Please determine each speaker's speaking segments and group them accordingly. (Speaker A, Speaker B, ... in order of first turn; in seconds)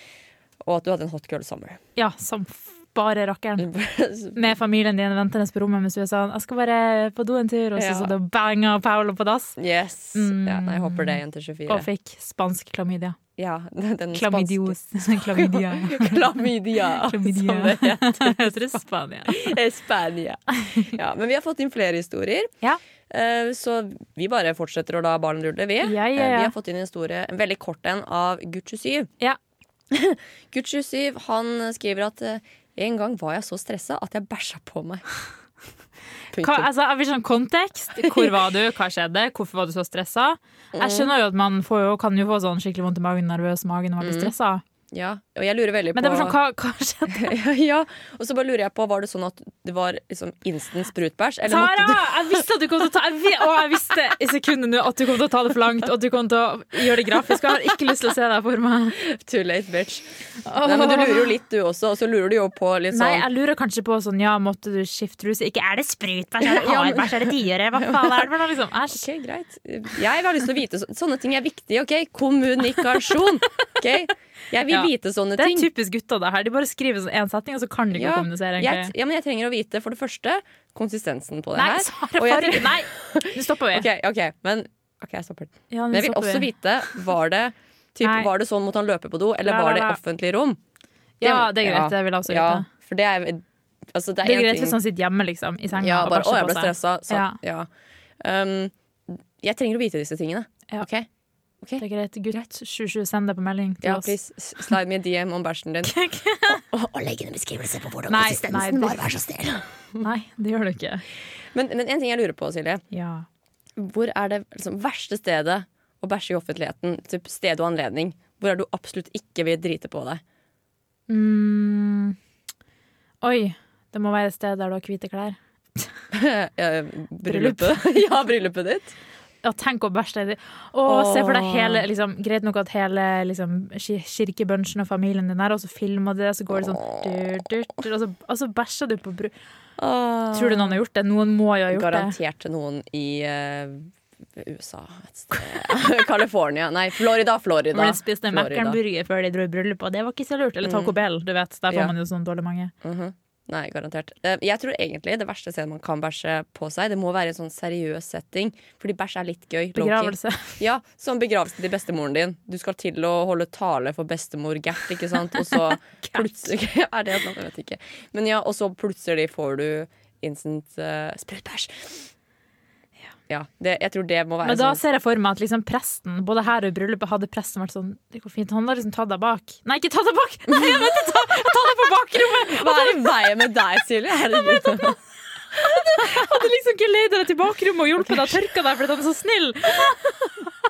Speaker A: 0.6-1.8, 3.6-4.5, 7.8-8.1, 9.6-11.8, 13.4-22.5, 23.1-29.1, 29.9-35.0, 36.3-36.7, 38.0-38.2, 40.7-41.1, 44.0-44.3, 44.9-46.4, 47.1-52.1, 59.0-63.3, 66.4-68.3, 68.9-75.7, 77.9-90.6, 91.2-94.8, 95.8-97.7, 98.2-101.1, 101.6-102.4, 103.8-106.0, 106.5-110.0, 111.5-112.8, 113.8-120.2, 126.1-128.9, 130.8-131.8, 136.7-137.2, 139.8-140.8, 141.7-148.8, 150.6-150.9, 151.7-151.9, 152.8-172.0, 173.3-174.8, 182.5-185.0
Speaker B: 1.9-3.6, 4.3-9.6, 10.1-13.2, 14.1-19.6, 25.8-26.5, 36.4-44.6, 45.9-47.3, 51.5-59.0, 60.5-61.3, 62.9-69.0, 74.7-78.9, 81.5-83.8, 85.7-86.5, 88.0-88.3, 89.4-90.0, 91.2-92.7, 94.2-97.4, 101.8-104.1, 105.9-106.6, 108.1-109.1, 110.0-111.0, 112.9-113.2, 121.1-122.2, 123.2-125.9, 127.2-127.9, 129.4-139.3, 140.3-142.1, 147.7-152.7, 159.7-160.6, 165.5-166.2, 174.4-183.3, 184.3-184.9, 185.6-190.0